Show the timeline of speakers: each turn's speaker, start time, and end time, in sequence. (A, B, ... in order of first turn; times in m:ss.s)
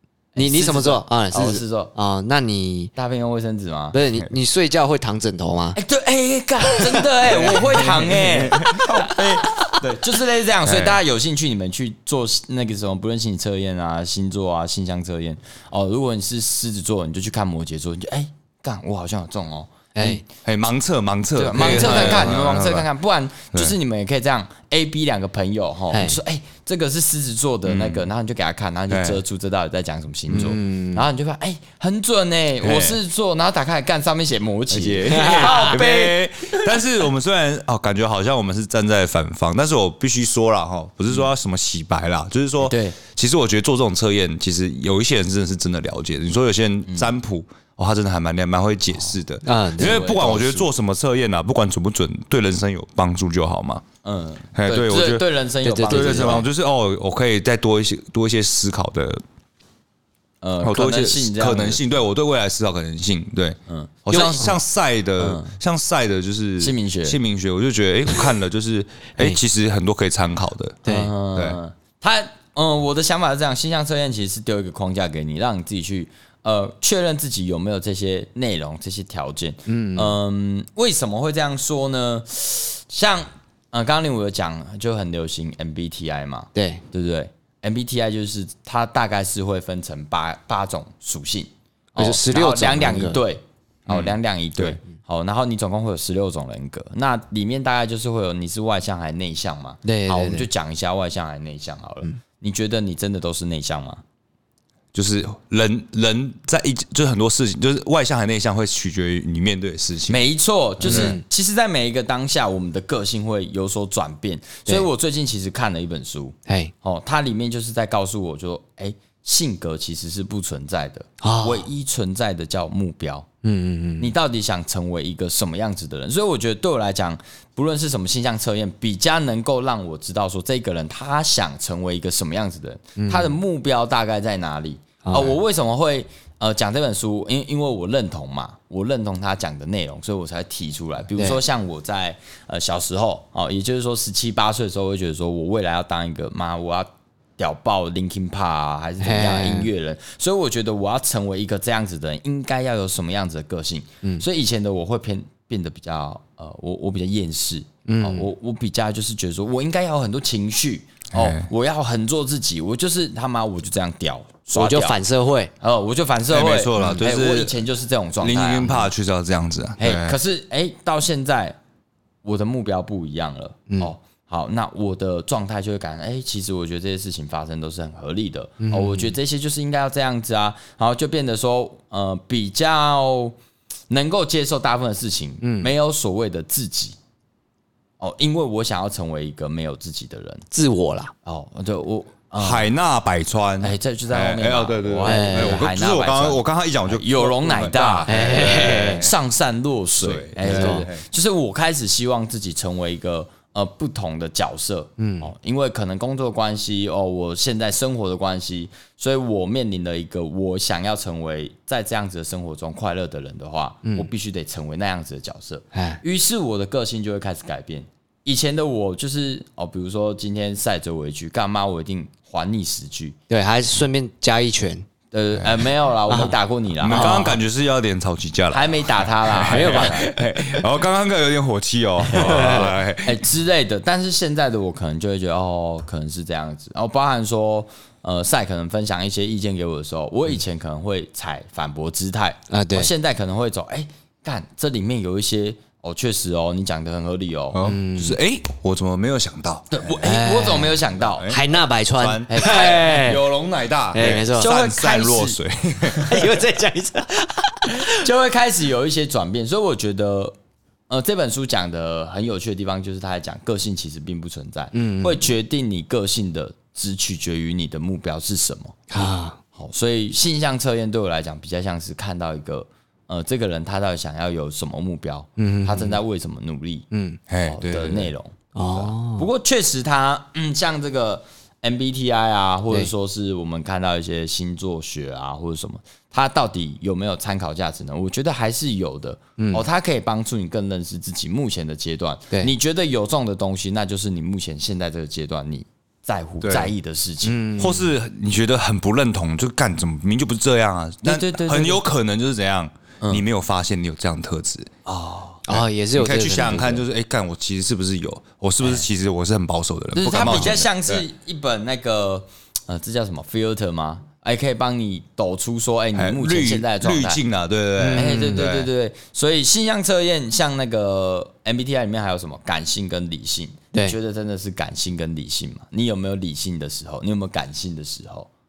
0:00.4-0:01.9 A
0:00.4-0:02.9 B
0:03.0-0:04.0 A
0:03.9-0:05.8 B
0:05.8-0:20.2 A
0:07.3-0:08.9 C
0:08.6-0:08.9 B
0:10.6-0:11.0 C
0:20.0-0:20.2 B
0:20.4-0:22.9 C
0:21.4-0:36.6 A
0:21.6-0:22.2 B
0:25.9-0:26.2 B
0:27.6-0:28.1 C
0:28.9-0:29.2 C
0:30.3-0:31.0 B
0:32.6-0:33.0 C
0:34.7-0:53.8 C
0:35.1-0:35.8 B
0:42.6-0:43.0 A
0:46.9-0:47.1 A
0:49.4-0:50.7 B
0:49.8-0:50.3 A
0:54.0-0:56.4 A
0:54.6-0:55.2 C
0:55.6-0:56.5 B
0:55.8-0:59.2 C
1:00.4-1:01.8 A
1:00.6-1:03.6 C
1:03.7-1:04.5 A
1:04.1-1:10.8 C
1:04.1-1:04.5 B
1:05.2-1:05.5 A
1:06.6-1:07.2 A
1:10.8-1:11.1 B
1:10.9-1:44.0 A
1:19.7-1:20.2 B
1:26.6-1:26.8 B
1:32.0-1:33.2 B
1:33.9-1:34.8 C
1:39.8-1:40.5 B
1:44.9-1:50.3 C
1:50.1-2:03.3 A
1:50.8-1:51.2 C
1:50.8-1:51.2 B
1:56.5-1:56.7 B
2:01.2-2:01.7 B
2:03.4-2:04.1 B
2:04.0-2:45.0 A
2:13.0-2:13.3 B
2:15.0-2:15.4 B
2:29.0-2:29.7 B
2:37.9-2:38.3 B
2:41.1-2:41.5 C
2:44.5-2:45.5 B
2:45.6-2:48.9 A
2:46.3-2:47.6 C
2:46.8-2:47.0 B
2:48.2-2:50.2 C
2:49.8-2:51.6 A
2:52.2-3:03.4 A
2:53.7-2:54.0 B
2:58.6-2:59.2 B
3:03.9-3:07.0 A
3:05.4-3:05.7 B
3:08.0-3:10.4 A
3:10.5-3:11.1 B
3:11.2-3:12.7 A
3:12.4-3:19.1 C
3:13.6-3:43.2 A
3:15.0-3:15.6 B
3:18.1-3:19.1 B
3:20.0-3:21.0 C
3:20.4-3:20.9 B
3:25.0-3:25.3 B
3:35.7-3:36.0 B
3:43.3-3:44.8 B
3:45.1-3:47.3 A
3:46.1-3:47.4 B
3:46.8-3:53.2 C
3:48.5-3:50.1 A
3:49.5-3:50.1 B
3:52.1-4:07.6 A
3:52.1-3:52.8 B
4:02.5-4:02.9 B
4:07.5-4:10.0 C
4:07.6-4:08.2 B
4:09.7-4:11.3 A
4:10.0-4:13.3 B
4:11.0-4:16.2 C
4:12.4-4:12.8 A
4:13.9-4:14.5 B
4:14.0-4:15.4 A
4:16.0-4:17.8 B
4:17.8-4:20.4 A
4:20.9-4:28.9 A
4:24.7-4:25.2 B
4:28.9-4:29.4 B
4:29.6-4:36.9 A
4:35.4-4:36.0 B
4:36.9-4:37.2 B
4:37.3-4:38.1 C
4:37.4-4:57.4 A
4:38.6-4:39.3 B
4:49.4-4:49.6 B
4:56.4-4:56.7 C
4:57.2-4:57.8 B
4:57.6-5:11.1 C
5:01.0-5:01.8 A
5:05.5-5:06.8 B
5:10.0-5:17.2 A
5:16.0-5:18.7 C
5:17.8-5:18.4 B
5:18.0-5:28.3 A